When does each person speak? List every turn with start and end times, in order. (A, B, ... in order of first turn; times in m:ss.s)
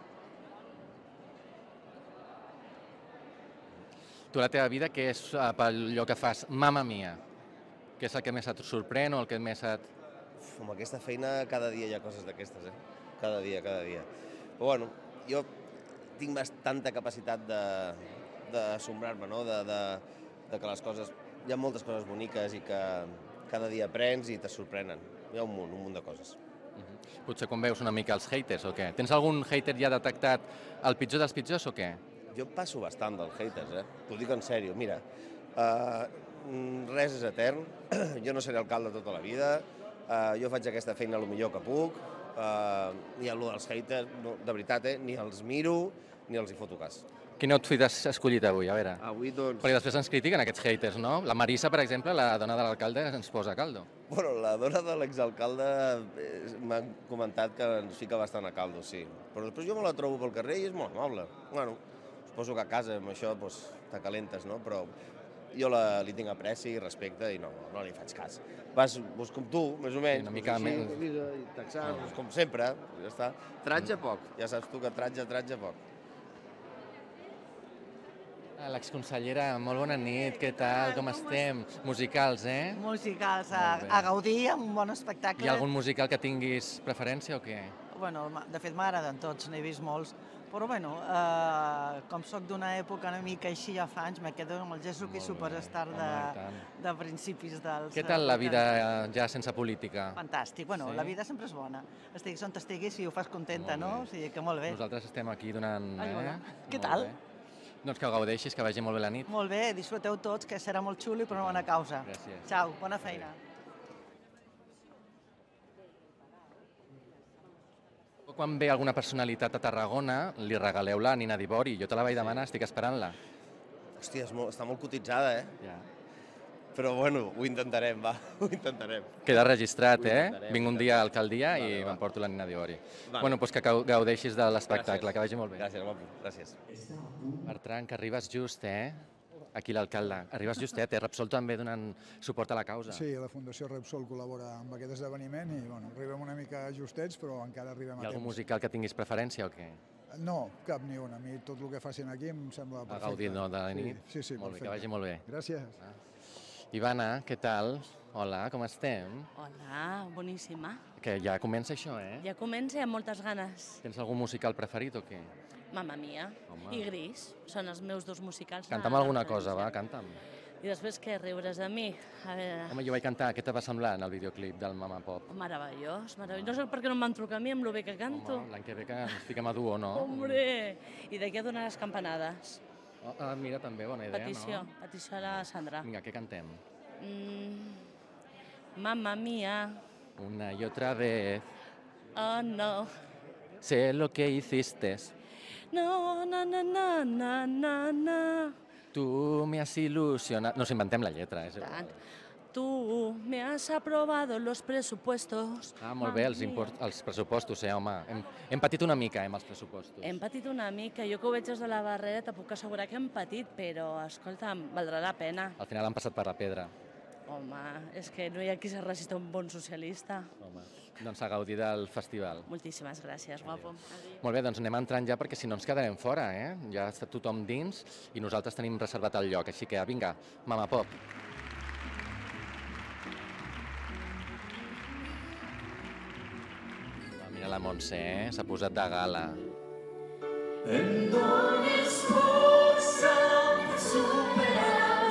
0:04.3-0:07.2 A
0:08.0-0:09.9 A
0:10.4-0:14.0 B
0:14.6-0:15.5 B
0:16.2-0:26.4 B
0:26.8-0:32.0 A
0:32.3-0:35.0 B
0:35.6-0:47.0 B
0:47.4-0:49.0 A
0:49.0-0:49.7 B
0:49.6-0:53.9 A
0:54.1-1:01.8 B
1:02.3-1:04.9 B
1:05.5-1:15.8 B
1:10.1-1:11.0 A
1:11.8-1:12.2 A
1:18.6-1:22.8 A
1:20.4-1:21.4 C
1:22.7-1:25.6 C
1:23.5-1:24.1 A
1:25.4-1:27.7 A
1:27.9-1:38.8 C
1:35.0-1:36.6 A
1:37.9-1:40.2 A
1:40.2-1:44.8 C
1:40.8-1:41.2 A
1:43.5-1:44.1 A
1:44.7-1:47.2 A
1:46.0-1:47.1 C
1:47.8-1:49.3 A
1:49.3-1:53.3 C
1:51.3-1:53.3 A
1:58.3-2:03.2 A
2:02.1-2:02.5 B
2:04.0-2:05.5 B
2:05.6-2:05.9 A
2:06.7-2:09.3 B
2:09.2-2:15.7 A
2:10.0-2:12.0 B
2:13.1-2:13.4 B
2:14.7-2:16.6 B
2:17.4-2:19.0 A
2:19.5-2:23.0 A
2:22.9-2:28.4 D
2:28.0-2:29.8 A
2:30.1-2:35.7 D
2:32.9-2:35.2 A
2:36.7-2:39.3 A
2:39.4-2:40.8 E
2:41.0-2:42.2 A
2:42.2-2:43.8 E
2:43.8-2:45.3 A
2:45.7-2:49.8 E
2:46.5-2:46.9 A
2:48.7-2:50.2 A
2:50.6-2:52.8 E
2:52.7-2:55.3 A
2:55.3-2:58.5 E
2:56.2-2:56.6 A
2:58.1-3:00.4 A
2:59.9-3:02.6 E
3:03.0-3:04.7 A
3:04.1-3:05.9 E
3:05.3-3:06.6 A
3:07.0-3:07.8 E
3:08.8-3:09.8 E
3:10.2-3:11.5 A
3:12.1-3:12.9 E
3:13.6-3:15.1 A
3:15.7-3:18.5 E
3:18.9-3:21.9 A
3:21.6-3:21.9 E
3:22.5-3:26.7 E
3:25.8-3:30.2 A
3:30.0-3:35.6 E
3:35.6-3:36.7 A
3:37.3-3:40.3 E
3:40.4-3:42.5 A
3:42.5-3:44.0 E
3:43.4-3:50.9 A
3:57.1-3:59.4 A
4:00.9-4:04.4 F